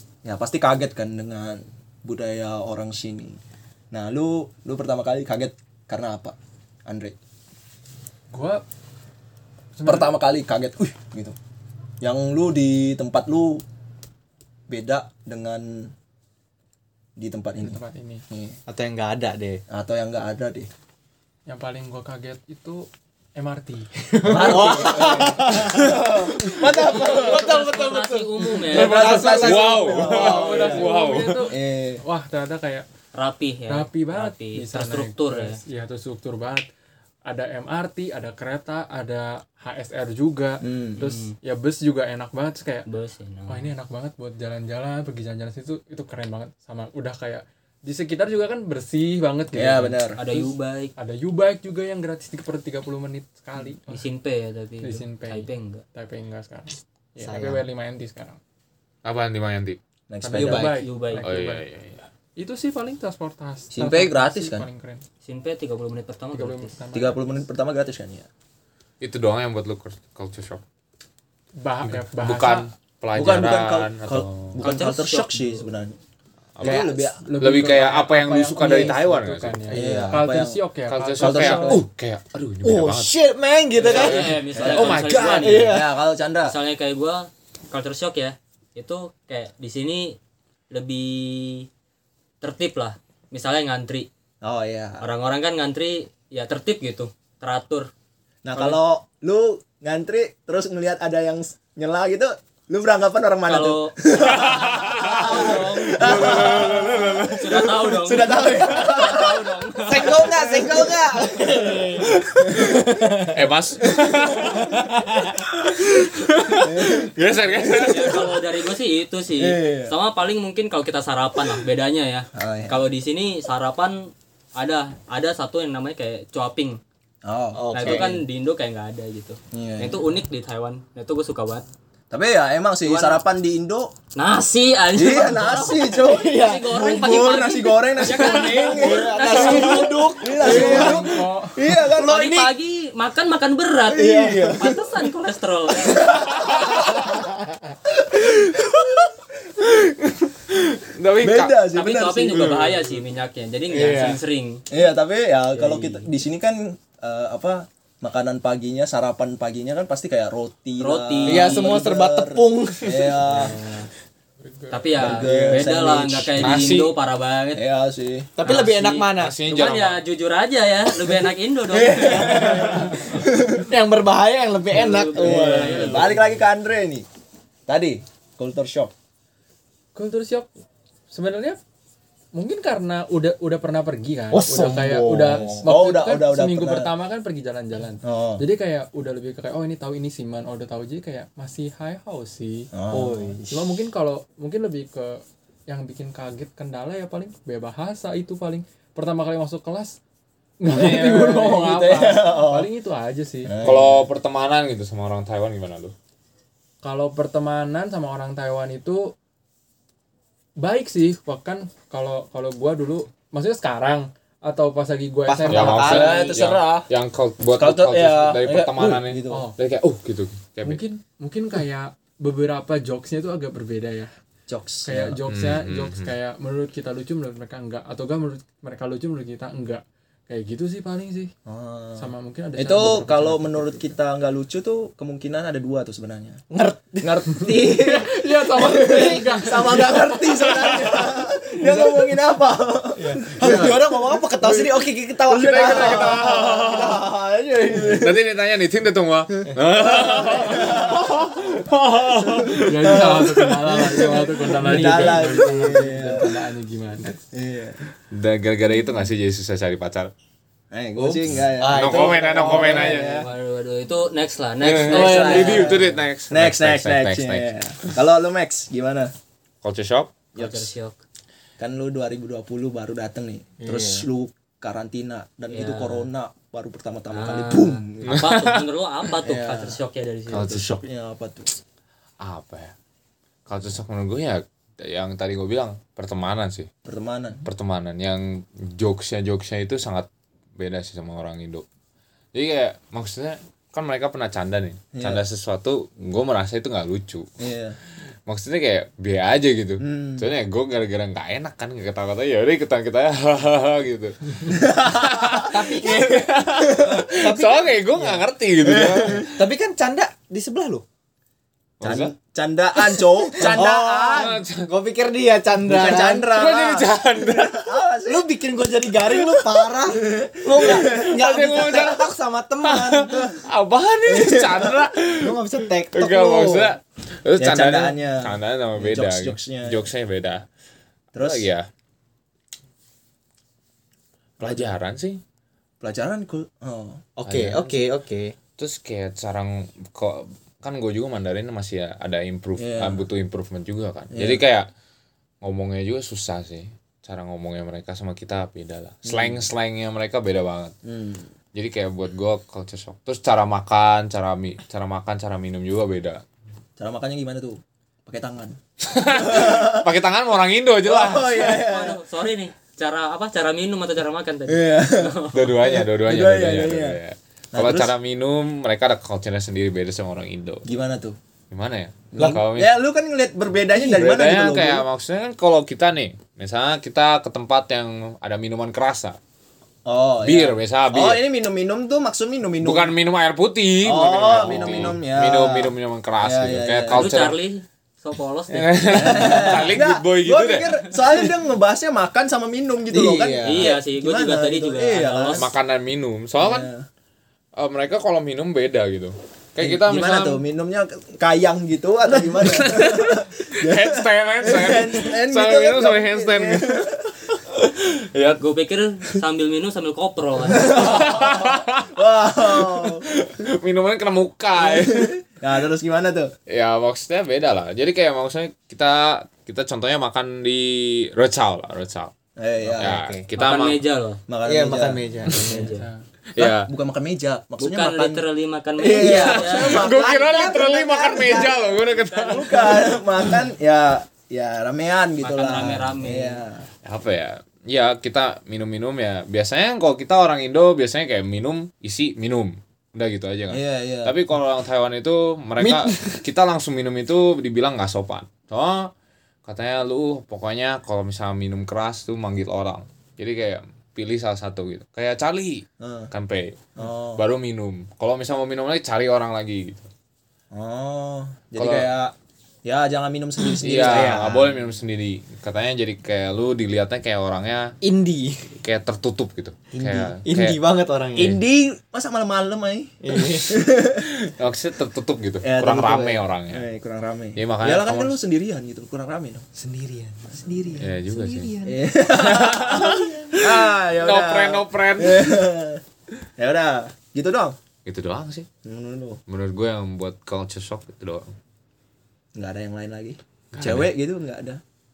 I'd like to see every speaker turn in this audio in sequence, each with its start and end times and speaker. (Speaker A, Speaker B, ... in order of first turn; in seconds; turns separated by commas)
Speaker A: 0.2-3.4, Speaker A: 3.9-6.3, Speaker A: 6.9-7.2, Speaker B: 8.3-8.6, Speaker B: 9.8-10.2, Speaker A: 9.9-11.4, Speaker A: 12.0-13.6, Speaker A: 14.7-15.9, Speaker A: 17.2-18.6, Speaker B: 17.6-18.2, Speaker C: 18.7-19.6, Speaker A: 19.7-20.7, Speaker B: 21.5-24.5, Speaker C: 24.2-29.8, Speaker A: 24.2-27.6, Speaker D: 27.0-29.5, Speaker E: 28.7-31.4, Speaker A: 28.7-32.0, Speaker B: 30.0-32.9, Speaker D: 33.1-35.6, Speaker B: 33.7-36.6, Speaker B: 37.2-42.9, Speaker A: 40.6-41.0, Speaker D: 41.0-41.3, Speaker D: 42.8-43.7, Speaker B: 43.5-54.0, Speaker A: 49.5-50.2, Speaker D: 50.2-50.9, Speaker D: 53.9-55.8, Speaker B: 54.8-58.4, Speaker C: 57.2-57.6, Speaker E: 59.0-59.8, Speaker A: 60.1-60.8, Speaker B: 60.2-61.6, Speaker C: 60.3-60.8, Speaker D: 60.8-61.2, Speaker E: 61.2-62.1, Speaker B: 62.4-65.0, Speaker A: 63.7-64.7, Speaker D: 65.2-66.8, Speaker B: 66.3-67.2, Speaker A: 66.9-68.3, Speaker E: 69.0-70.6, Speaker B: 71.6-72.7, Speaker E: 71.8-74.7, Speaker A: 73.1-76.0, Speaker D: 74.6-75.7, Speaker E: 76.6-79.9, Speaker A: 76.6-77.3, Speaker B: 76.6-81.8, Speaker C: 78.6-79.0, Speaker A: 79.7-80.6, Speaker E: 80.9-83.2, Speaker A: 81.2-81.8, Speaker C: 82.6-84.3, Speaker D: 83.7-85.7, Speaker E: 83.9-85.8, Speaker A: 84.5-86.6, Speaker C: 85.4-86.0, Speaker D: 86.5-90.2, Speaker D: 90.7-91.7, Speaker D: 92.4-94.1, Speaker A: 94.4-95.1, Speaker D: 95.0-97.9, Speaker A: 98.5-113.0, Speaker D: 98.5-98.8, Speaker D: 103.4-104.0, Speaker E: 104.3-107.6, Speaker D: 104.8-106.0, Speaker D: 107.2-110.2, Speaker C: 109.8-113.3, Speaker E: 113.2-118.4, Speaker C: 114.5-114.8, Speaker A: 116.6-117.1, Speaker D: 117.6-126.8, Speaker A: 119.3-119.9, Speaker A: 122.3-122.8, Speaker A: 127.2-128.1, Speaker C: 127.5-128.2, Speaker D: 127.7-131.7, Speaker A: 129.5-130.0, Speaker A: 132.1-133.9, Speaker D: 132.8-133.2, Speaker D: 134.2-140.1, Speaker A: 134.9-142.2, Speaker C: 136.1-136.8, Speaker C: 138.8-141.1, Speaker B: 140.4-141.6, Speaker C: 141.8-142.6, Speaker D: 142.0-146.1, Speaker A: 143.9-144.9, Speaker C: 144.0-144.7, Speaker A: 145.8-147.2, Speaker C: 147.2-147.5, Speaker A: 147.8-150.3, Speaker E: 150.8-151.6, Speaker A: 151.2-152.5, Speaker D: 151.7-154.6, Speaker E: 152.3-152.9, Speaker C: 153.7-154.2, Speaker A: 154.7-163.6, Speaker D: 155.5-156.1, Speaker D: 160.8-161.7, Speaker C: 161.2-163.4, Speaker D: 163.3-163.9, Speaker B: 164.4-165.6, Speaker D: 164.7-167.6, Speaker A: 165.0-166.6, Speaker E: 166.3-166.9, Speaker A: 167.6-168.3, Speaker C: 168.4-169.4, Speaker E: 168.4-170.0, Speaker D: 168.5-173.1, Speaker A: 171.7-173.7, Speaker C: 173.6-176.1, Speaker D: 174.7-176.4, Speaker A: 175.2-177.1, Speaker A: 177.7-178.9, Speaker B: 179.9-180.5, Speaker B: 181.1-181.6, Speaker B: 182.3-192.7, Speaker C: 184.3-185.7, Speaker A: 185.2-186.9, Speaker A: 188.0-188.5, Speaker A: 192.7-193.3, Speaker C: 192.9-193.7, Speaker B: 193.5-200.0, Speaker B: 200.6-203.5, Speaker A: 200.8-202.7, Speaker E: 200.8-201.1, Speaker A: 203.4-204.1, Speaker E: 203.6-205.9, Speaker B: 206.8-209.2, Speaker B: 210.6-216.2, Speaker C: 215.2-216.1, Speaker E: 215.5-220.8, Speaker A: 215.8-216.9, Speaker A: 217.6-219.5, Speaker B: 219.3-219.6, Speaker B: 220.6-224.1, Speaker A: 224.5-225.2, Speaker B: 224.8-231.3, Speaker E: 225.3-226.1, Speaker A: 231.5-236.4, Speaker B: 232.0-233.8, Speaker C: 236.5-237.2, Speaker A: 237.0-248.2, Speaker B: 237.7-240.9, Speaker C: 238.8-239.8, Speaker B: 241.6-242.0, Speaker C: 243.0-247.1, Speaker B: 243.4-243.8, Speaker E: 245.5-247.0, Speaker E: 247.9-252.5, Speaker A: 249.8-251.3, Speaker A: 252.2-256.3, Speaker B: 252.6-257.1, Speaker C: 254.6-255.4, Speaker A: 257.3-257.8, Speaker E: 258.1-260.1, Speaker A: 260.7-263.3, Speaker C: 261.0-263.1, Speaker E: 261.6-263.2, Speaker D: 262.9-265.9, Speaker E: 264.6-267.9, Speaker C: 264.8-265.7, Speaker A: 264.9-269.1, Speaker E: 269.6-270.3, Speaker A: 270.3-270.7, Speaker D: 270.4-271.0, Speaker A: 271.6-278.3, Speaker C: 273.6-274.1, Speaker D: 275.5-276.1, Speaker D: 277.1-280.5, Speaker E: 278.1-278.6, Speaker A: 279.2-279.8, Speaker E: 280.3-280.8, Speaker A: 280.3-281.5, Speaker E: 282.2-282.7, Speaker E: 283.5-286.7, Speaker A: 286.8-287.4, Speaker E: 287.4-291.6, Speaker E: 292.3-297.2, Speaker A: 294.9-295.2, Speaker A: 297.4-297.8, Speaker E: 298.3-309.2, Speaker A: 299.8-300.3, Speaker A: 304.5-307.0, Speaker C: 305.5-306.3, Speaker C: 306.8-308.3, Speaker A: 308.6-309.2, Speaker C: 309.2-310.8, Speaker E: 311.8-312.1, Speaker A: 311.8-314.3, Speaker C: 312.8-316.4, Speaker E: 313.4-314.7, Speaker A: 315.6-318.3, Speaker E: 316.3-317.7, Speaker C: 318.1-323.1, Speaker E: 319.1-319.7, Speaker A: 319.9-321.1, Speaker E: 320.8-322.1, Speaker E: 322.6-330.4, Speaker A: 323.1-323.4, Speaker A: 324.1-324.9, Speaker C: 325.2-326.7, Speaker A: 327.4-329.9, Speaker A: 331.1-331.5, Speaker E: 331.2-331.7, Speaker E: 334.4-335.2, Speaker A: 334.4-334.7, Speaker A: 335.8-337.0, Speaker C: 337.2-338.4, Speaker E: 337.2-337.9, Speaker E: 338.6-344.7, Speaker A: 342.6-343.1, Speaker A: 344.1-344.4, Speaker E: 345.4-350.7, Speaker A: 349.0-349.4, Speaker A: 350.8-351.3, Speaker E: 351.5-356.2, Speaker A: 356.8-358.6, Speaker E: 358.9-361.6, Speaker A: 359.1-359.9, Speaker A: 360.8-362.0, Speaker D: 361.5-365.6, Speaker A: 364.5-367.0, Speaker E: 365.3-370.6, Speaker A: 367.5-367.9, Speaker A: 370.6-371.1, Speaker E: 371.5-372.7, Speaker A: 372.1-374.8, Speaker C: 373.7-374.1, Speaker E: 373.9-379.2, Speaker A: 379.8-382.9, Speaker E: 380.2-381.2, Speaker E: 382.6-387.4, Speaker A: 383.8-387.1, Speaker D: 386.9-389.1, Speaker E: 388.5-391.2, Speaker A: 388.9-395.5, Speaker C: 392.9-393.7, Speaker D: 393.4-395.5, Speaker E: 395.3-396.7, Speaker A: 396.4-396.9, Speaker E: 397.6-400.4, Speaker A: 399.6-407.4, Speaker E: 402.4-406.8, Speaker E: 407.7-408.3, Speaker D: 408.2-410.8, Speaker A: 410.5-413.1, Speaker E: 410.8-412.0, Speaker E: 412.6-415.1, Speaker A: 414.5-416.3, Speaker E: 416.5-422.1, Speaker A: 422.4-423.0, Speaker E: 422.8-423.8, Speaker C: 422.8-423.3, Speaker D: 423.3-424.2, Speaker A: 424.3-425.0, Speaker C: 424.4-425.8, Speaker D: 425.3-425.9, Speaker B: 425.7-426.0, Speaker E: 426.4-426.7, Speaker A: 426.4-428.2, Speaker D: 427.6-429.7, Speaker A: 428.8-430.1, Speaker E: 429.0-432.9, Speaker C: 429.2-432.8, Speaker A: 432.2-436.7, Speaker D: 435.2-436.4, Speaker E: 436.8-448.9, Speaker A: 443.5-444.2, Speaker C: 445.6-446.2, Speaker E: 449.4-459.9, Speaker A: 455.8-456.1, Speaker A: 456.8-457.2, Speaker A: 460.5-462.1, Speaker E: 461.6-461.9, Speaker A: 462.6-464.6, Speaker E: 463.6-467.7, Speaker C: 463.7-464.2, Speaker C: 467.8-468.5, Speaker E: 468.6-470.6, Speaker C: 469.7-471.3, Speaker A: 471.1-474.1, Speaker E: 471.2-471.4, Speaker C: 473.0-473.7, Speaker E: 474.3-476.6, Speaker A: 475.4-479.4, Speaker E: 477.4-478.1, Speaker C: 479.6-482.0, Speaker E: 480.8-481.5, Speaker A: 481.6-485.8, Speaker E: 482.2-483.5, Speaker E: 484.0-485.4, Speaker A: 486.4-487.6, Speaker E: 487.8-488.5, Speaker A: 488.6-489.2, Speaker E: 489.3-491.3, Speaker A: 492.3-494.6, Speaker E: 493.5-493.9